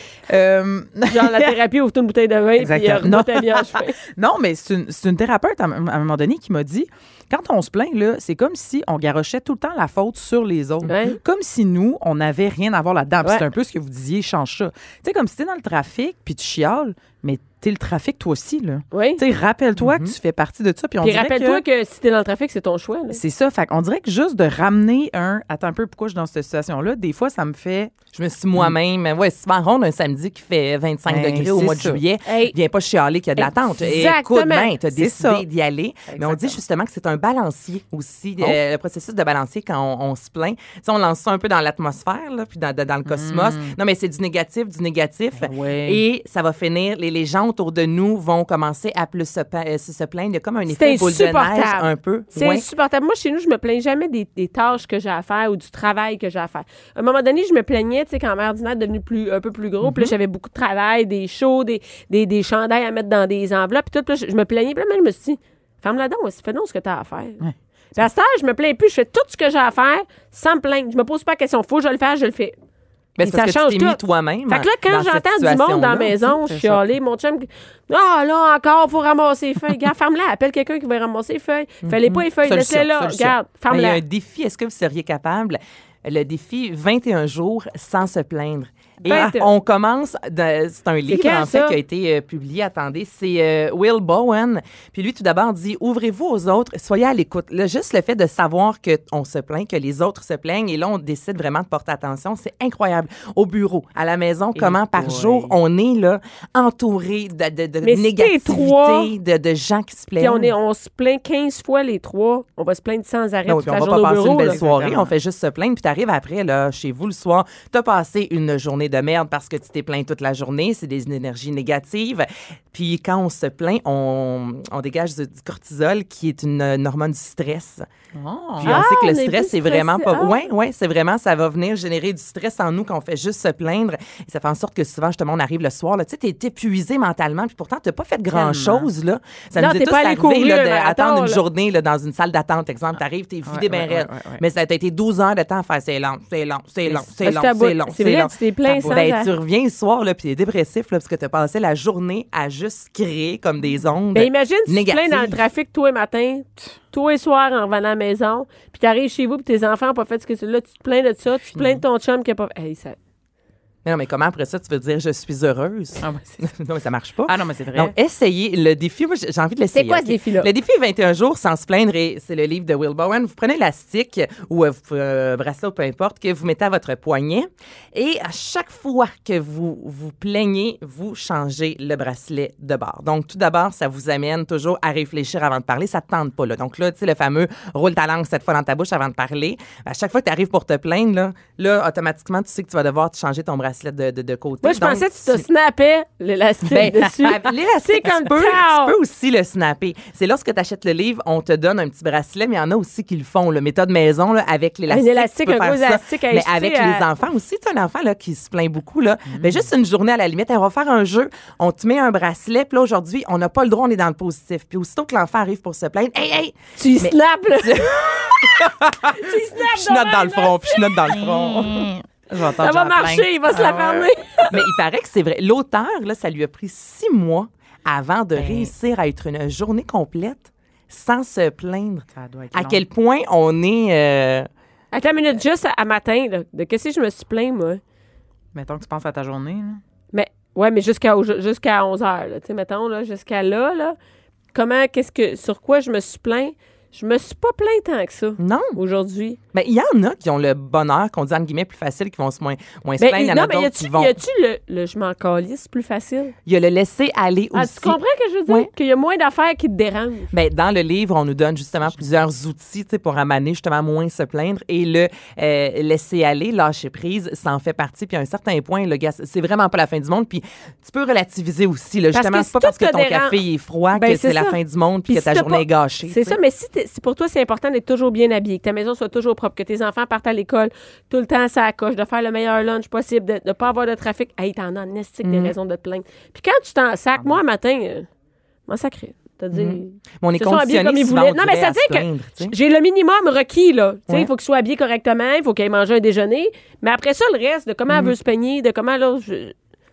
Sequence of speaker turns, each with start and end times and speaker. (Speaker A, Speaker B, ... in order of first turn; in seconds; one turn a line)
Speaker A: 0.3-1.6
Speaker B: 1.1-4.0
Speaker A: 2.6-21.6
Speaker B: 10.8-11.2
Speaker B: 18.9-19.2
Speaker C: 19.8-20.1
Speaker B: 21.0-23.2
Speaker A: 23.1-27.9
Speaker C: 28.1-52.7
Speaker A: 31.1-32.0
Speaker B: 32.2-32.5
Speaker B: 33.4-34.7
Speaker A: 34.9-35.4
Speaker A: 36.1-36.6
Speaker A: 43.1-43.8
Speaker A: 45.3-46.0
Speaker B: 50.7-67.4
Speaker A: 59.8-60.1
Speaker B: 68.0-72.6
Speaker C: 73.2-76.2
Speaker B: 73.2-84.0
Speaker A: 76.3-76.8
Speaker C: 81.8-82.2
Speaker A: 82.4-83.3
Speaker C: 83.7-110.5
Speaker A: 89.0-89.3
Speaker B: 89.1-89.5
Speaker B: 91.1-91.8
Speaker A: 104.5-105.6
Speaker B: 107.8-109.1
Speaker B: 110.2-114.6
Speaker C: 113.5-127.9
Speaker A: 114.2-115.2
Speaker A: 128.2-128.8
Speaker C: 128.6-148.3
Speaker B: 128.6-130.4
Speaker A: 138.3-138.9
Speaker B: 139.6-141.4
Speaker A: 143.5-144.4
Speaker B: 147.2-149.3
Speaker A: 148.7-149.0
Speaker C: 148.8-155.4
Speaker B: 154.1-163.0
Speaker A: 161.5-161.8
Speaker C: 163.8-195.4
Speaker A: 166.0-166.5
Speaker A: 167.3-167.9
Speaker B: 169.7-170.5
Speaker B: 194.6-198.9
Speaker C: 196.7-221.9
Speaker B: 204.9-207.0
Speaker A: 209.3-209.7
Speaker B: 216.8-217.9
Speaker B: 219.1-220.8
Speaker A: 221.1-224.1
Speaker B: 222.6-224.6
Speaker C: 224.5-234.5
Speaker A: 228.4-228.7
Speaker A: 232.2-232.8
Speaker B: 234.9-237.8
Speaker A: 238.5-239.8
Speaker B: 240.1-244.0
Speaker B: 244.5-249.4
Speaker C: 248.4-248.8
Speaker C: 249.5-254.2
Speaker B: 253.0-256.3
Speaker C: 256.5-258.7
Speaker B: 257.5-260.3
Speaker C: 260.3-276.4
Speaker B: 272.1-273.4
Speaker B: 273.9-288.1
Speaker C: 285.2-285.5
Speaker B: 288.7-299.6
Speaker C: 289.5-292.6